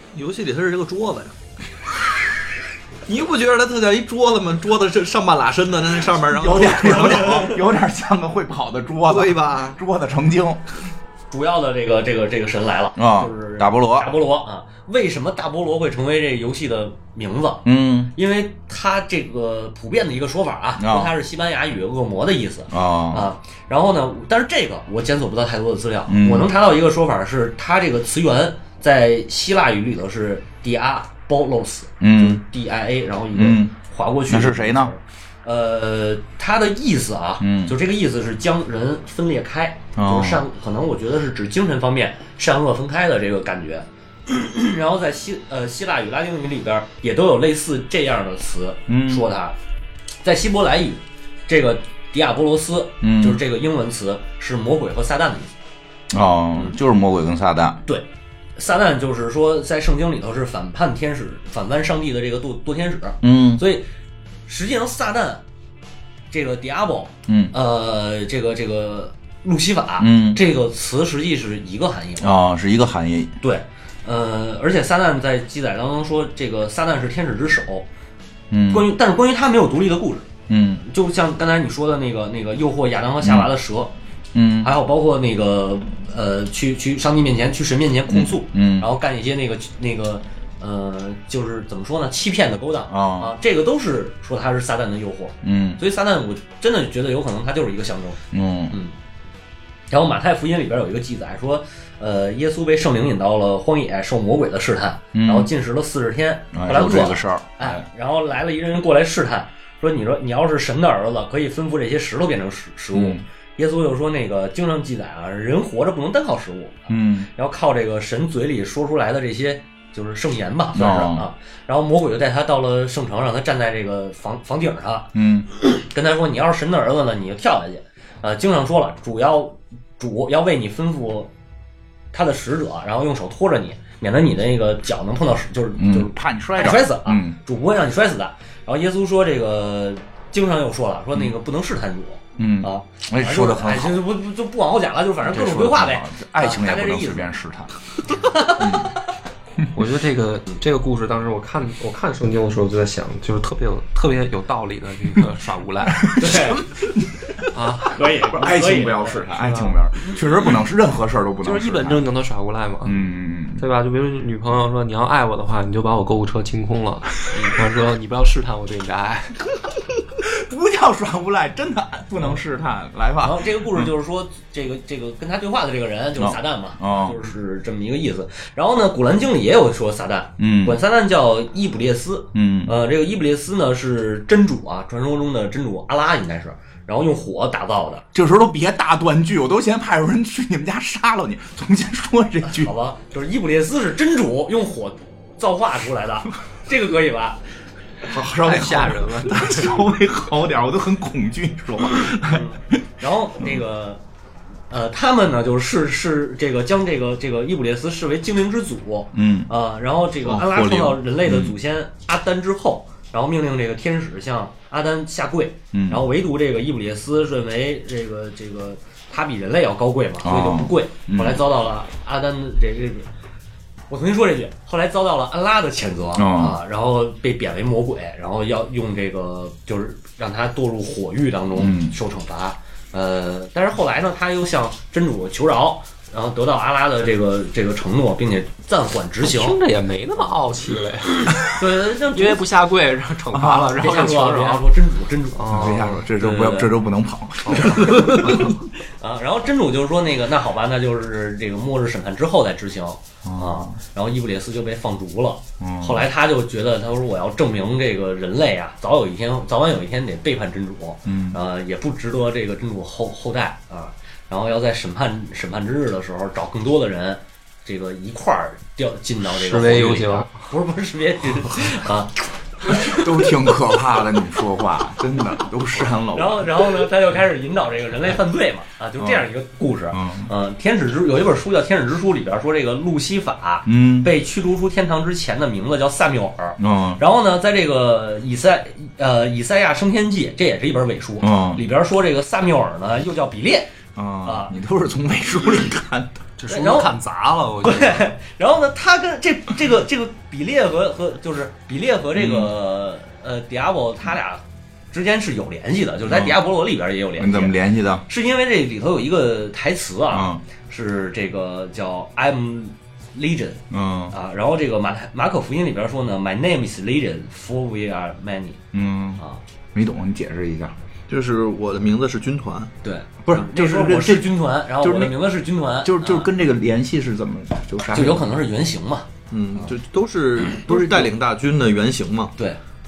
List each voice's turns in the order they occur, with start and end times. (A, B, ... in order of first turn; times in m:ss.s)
0:00.1-0:01.3 A
0:03.0-0:07.5 A
0:06.3-0:10.6 B
0:06.8-0:07.6 C
0:09.1-0:09.8 A
0:11.3-0:49.5 C
0:13.0-0:14.1 B
0:17.6-0:18.1 B
0:20.8-0:21.1 B
0:22.7-0:23.3 B
0:26.1-0:26.5 B
0:32.0-0:32.4 B
0:33.3-0:33.7 B
0:34.3-0:34.9 B
0:37.4-0:37.8 B
0:40.0-0:40.4 B
0:48.9-0:49.2 B
0:50.2-0:55.5 C
0:53.0-0:53.4 B
0:56.1-0:57.8 B
0:57.8-1:03.8 C
1:03.2-1:03.6 B
1:04.5-1:05.4 C
1:06.3-1:12.4 C
1:07.3-1:07.5 B
1:10.0-1:10.4 B
1:12.2-1:13.3 B
1:13.4-1:17.9 C
1:18.5-1:18.9 B
1:18.7-1:20.3 C
1:20.5-1:20.8 B
1:20.8-1:23.9 C
1:23.2-1:23.5 B
1:24.3-1:24.7 B
1:24.6-1:38.2 C
1:28.1-1:28.9 B
1:32.9-1:33.3 B
1:35.4-1:35.8 B
1:38.3-1:38.8 B
1:39.9-2:11.3 C
1:45.1-1:45.5 B
1:46.5-1:47.8 B
1:52.9-1:53.2 B
1:56.9-1:57.3 B
2:00.7-2:01.2 B
2:05.1-2:05.5 B
2:12.1-2:27.3 C
2:15.8-2:17.4 B
2:22.4-2:24.0 B
2:25.2-2:27.7 B
2:28.1-2:29.0 C
2:28.6-2:28.9 B
2:29.7-2:36.2 D
2:36.0-2:37.3 B
2:36.2-2:36.6 C
2:37.5-2:38.0 D
2:37.9-2:39.2 C
2:38.2-2:42.0 B
2:39.3-2:39.8 D
2:41.4-2:49.4 D
2:42.8-2:43.6 B
2:50.2-2:53.9 B
2:53.2-3:08.0 C
2:56.2-2:57.2 B
3:00.4-3:00.8 B
3:02.3-3:02.7 B
3:08.1-3:12.7 B
3:12.4-3:17.4 C
3:18.1-3:22.8 B
3:18.2-3:19.8 D
3:22.2-3:24.0 C
3:24.7-3:43.1 C
3:29.1-3:29.5 B
3:30.2-3:31.5 B
3:35.7-3:36.0 B
3:40.2-3:41.4 B
3:43.9-3:59.6 C
3:46.2-3:46.6 B
3:51.5-3:51.9 B
3:59.2-4:04.7 D
4:01.2-4:02.4 C
4:03.3-4:03.8 B
4:03.8-4:06.7 C
4:05.3-4:06.0 D
4:05.5-4:08.5 B
4:07.4-4:08.5 D
4:07.5-4:33.4 C
4:13.2-4:13.8 B
4:15.6-4:16.0 B
4:21.0-4:21.4 B
4:29.3-4:30.3 D
4:32.7-4:36.9 B
4:36.1-4:54.5 C
4:39.0-4:39.3 B
4:39.9-4:40.3 B
4:43.6-4:44.1 B
4:46.6-4:47.0 B
4:51.2-4:51.6 B
4:53.9-4:56.2 B
4:56.4-4:58.1 D
4:56.5-4:56.9 C
4:57.6-5:18.6 C
5:02.1-5:02.5 B
5:06.0-5:06.4 B
5:07.2-5:08.0 B
5:10.1-5:10.4 B
5:13.7-5:14.1 B
5:18.7-5:19.2 B
5:19.7-5:20.7 B
5:21.1-5:22.7 A
5:22.8-5:26.3 C
5:23.2-5:25.2 B
5:25.8-5:28.3 B
5:27.9-5:29.1 C
5:29.3-5:32.3 A
5:30.6-5:31.1 B